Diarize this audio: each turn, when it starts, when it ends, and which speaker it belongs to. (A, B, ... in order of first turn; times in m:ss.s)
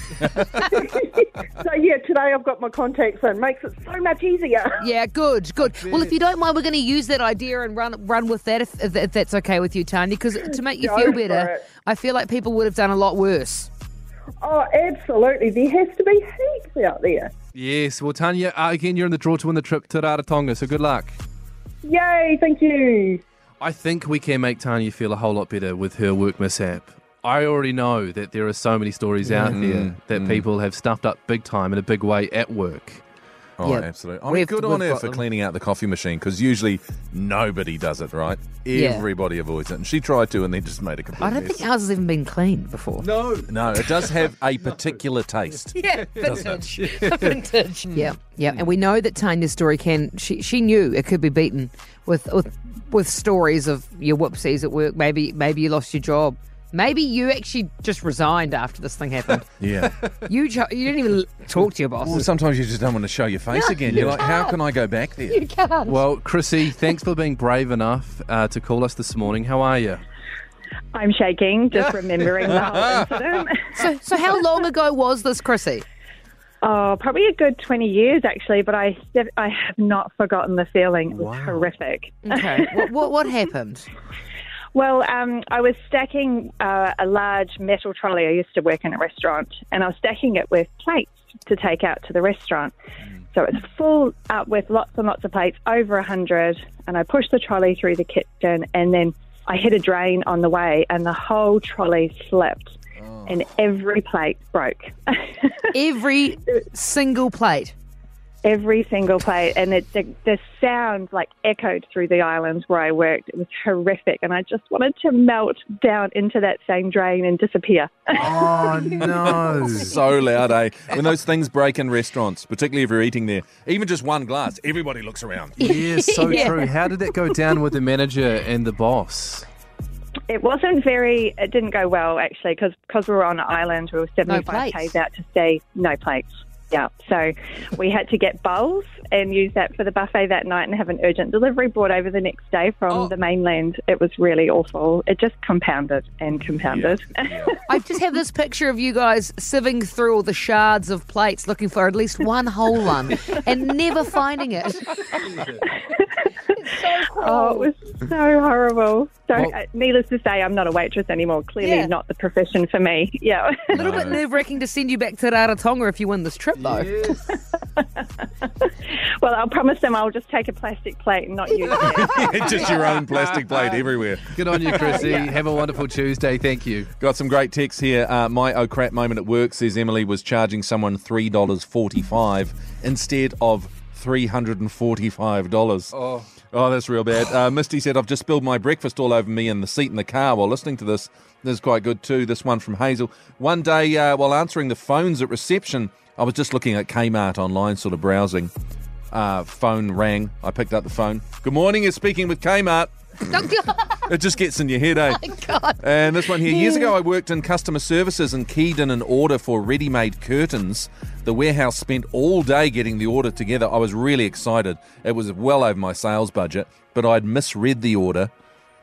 0:00.5-0:04.9 A
0:04.8-0:13.7 B
0:05.9-0:06.1 C
0:10.4-0:11.6 A
0:14.4-0:17.3 A
0:17.5-0:21.2 D
0:21.8-0:23.2 A
0:23.6-0:33.0 D
0:29.3-0:30.4 C
0:33.6-0:41.7 C
0:33.6-0:35.2 B
0:38.7-0:39.0 B
0:41.2-0:43.0 B
0:43.0-0:43.9 D
0:43.5-0:46.6 C
0:45.8-0:59.4 B
0:46.1-0:47.4 D
0:48.0-0:48.7 C
0:59.6-0:59.9 C
1:00.0-1:00.3 D
1:00.4-1:02.2 B
1:02.0-1:05.4 C
1:03.5-1:04.6 B
1:03.9-1:04.2 D
1:05.3-1:06.0 B
1:05.8-1:10.0 D
1:10.9-1:13.9 E
1:13.8-1:15.8 B
1:16.6-1:22.9 E
1:21.1-1:21.7 D
1:22.3-1:23.4 B
1:24.7-1:32.7 E
1:33.3-1:42.8 E
1:43.0-1:43.3 C
1:43.3-1:45.8 E
1:46.0-1:47.7 B
1:48.4-1:58.2 E
1:58.2-2:00.0 D
1:58.7-1:59.0 B
1:59.0-2:05.7 C
2:05.6-2:09.5 D
2:05.6-2:06.7 B
2:10.3-2:27.6 E
2:14.3-2:14.9 B
2:26.6-2:27.6 C
2:27.7-2:35.0 B
2:35.3-2:35.6 D
2:35.8-2:36.3 E
2:36.7-2:37.7 B
2:37.0-2:43.9 E
2:41.6-2:41.9 B
2:43.7-2:44.2 C
2:43.7-2:46.9 B
2:46.5-2:47.2 D
2:47.2-2:52.8 E
2:51.8-2:55.0 C
2:54.3-2:56.9 D
2:54.8-2:55.2 E
2:57.0-3:05.9 C
3:06.4-3:18.5 C
3:19.1-3:23.5 C
3:23.3-3:24.1 B
3:24.1-3:25.2 C
3:25.0-3:26.9 B
3:25.8-3:38.3 C